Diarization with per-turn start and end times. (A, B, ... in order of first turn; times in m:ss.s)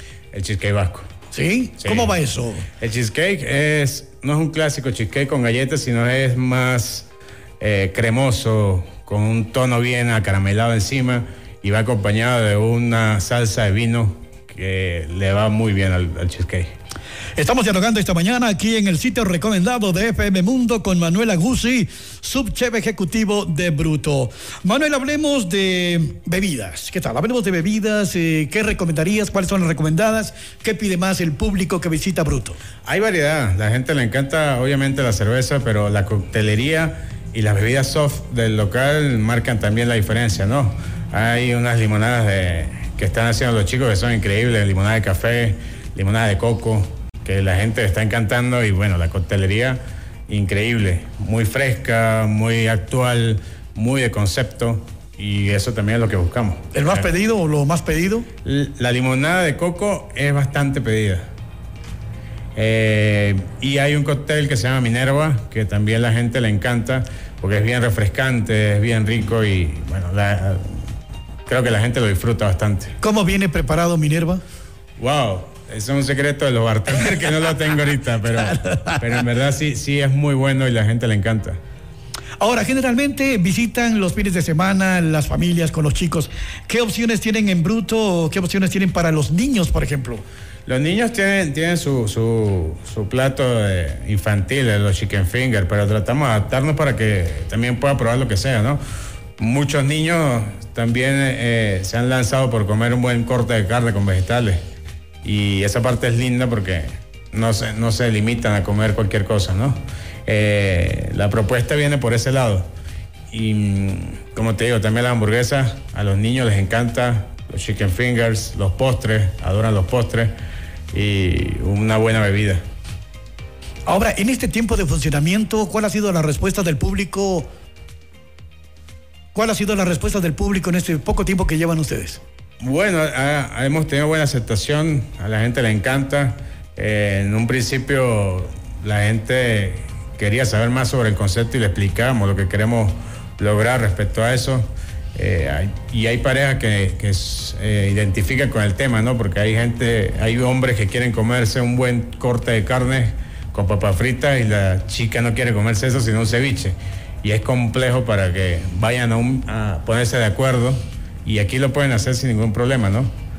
0:00.3-0:01.1 A
0:01.3-0:02.6 B
0:01.8-0:02.2 A
0:02.8-0:07.1 A
0:07.6-0:16.7 A
0:17.4-0:32.6 B
0:32.8-0:57.1 A
0:56.7-0:58.3 B
0:58.4-1:01.2 A
1:02.6-1:10.8 A
1:11.5-1:12.9 A
1:13.0-1:14.4 B
1:15.0-1:21.6 A
1:18.6-1:18.9 B
1:22.4-1:30.2 B
1:30.6-1:38.8 A
1:39.4-1:44.6 A
1:45.2-1:52.7 A
1:53.3-2:00.3 A
2:00.9-2:02.6 A
2:03.8-2:07.5 B
2:09.3-2:12.2 B
2:12.6-2:43.1 A